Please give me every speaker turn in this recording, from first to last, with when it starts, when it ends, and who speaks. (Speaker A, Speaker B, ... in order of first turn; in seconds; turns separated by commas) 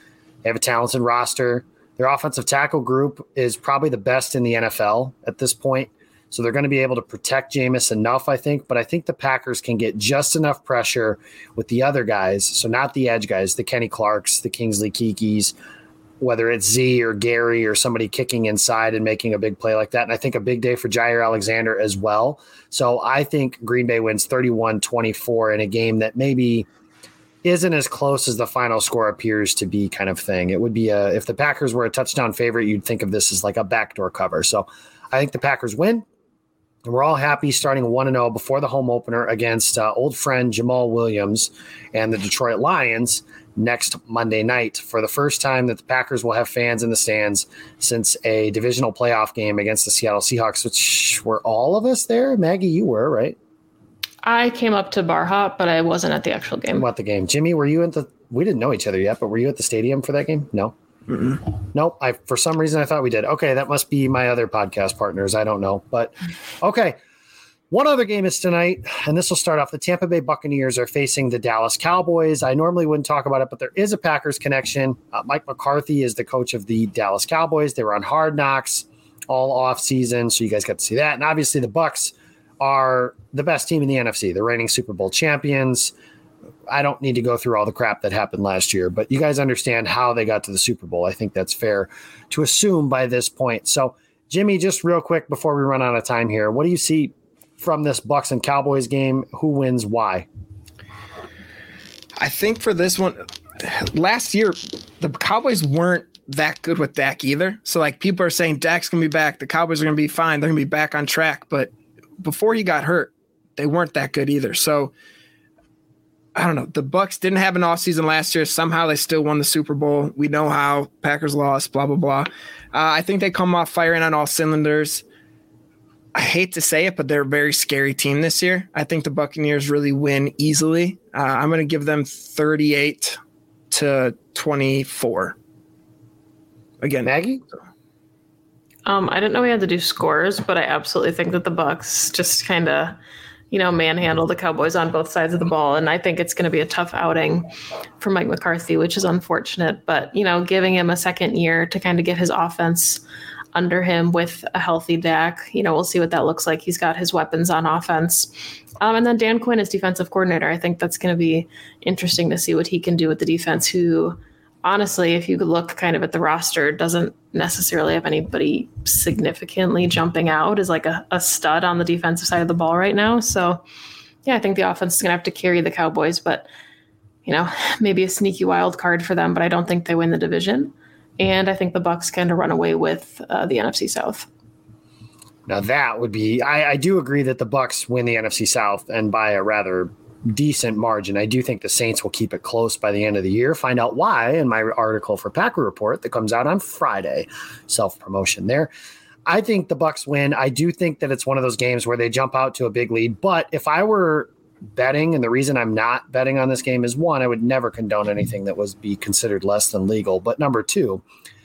Speaker A: 0.4-15.5, Speaker A: 16.2-26.7, Speaker A: 27.4-36.0, Speaker A: 36.9-53.4, Speaker B: 54.2-56.8, Speaker A: 56.7-60.7, Speaker C: 61.1-61.4, Speaker A: 61.7-67.0, Speaker A: 67.7-85.9, Speaker A: 86.7-100.3, Speaker C: 102.2-114.9, Speaker C: 116.3-125.0, Speaker C: 126.1-133.2, Speaker C: 133.7-135.3, Speaker C: 136.8-137.1, Speaker A: 137.0-137.4, Speaker B: 138.8-143.0, Speaker B: 143.5-147.5, Speaker B: 148.0-153.0, Speaker B: 153.5-173.6, Speaker B: 174.2-176.5, Speaker B: 177.2-184.3, Speaker A: 185.5-198.7, Speaker A: 199.2-211.0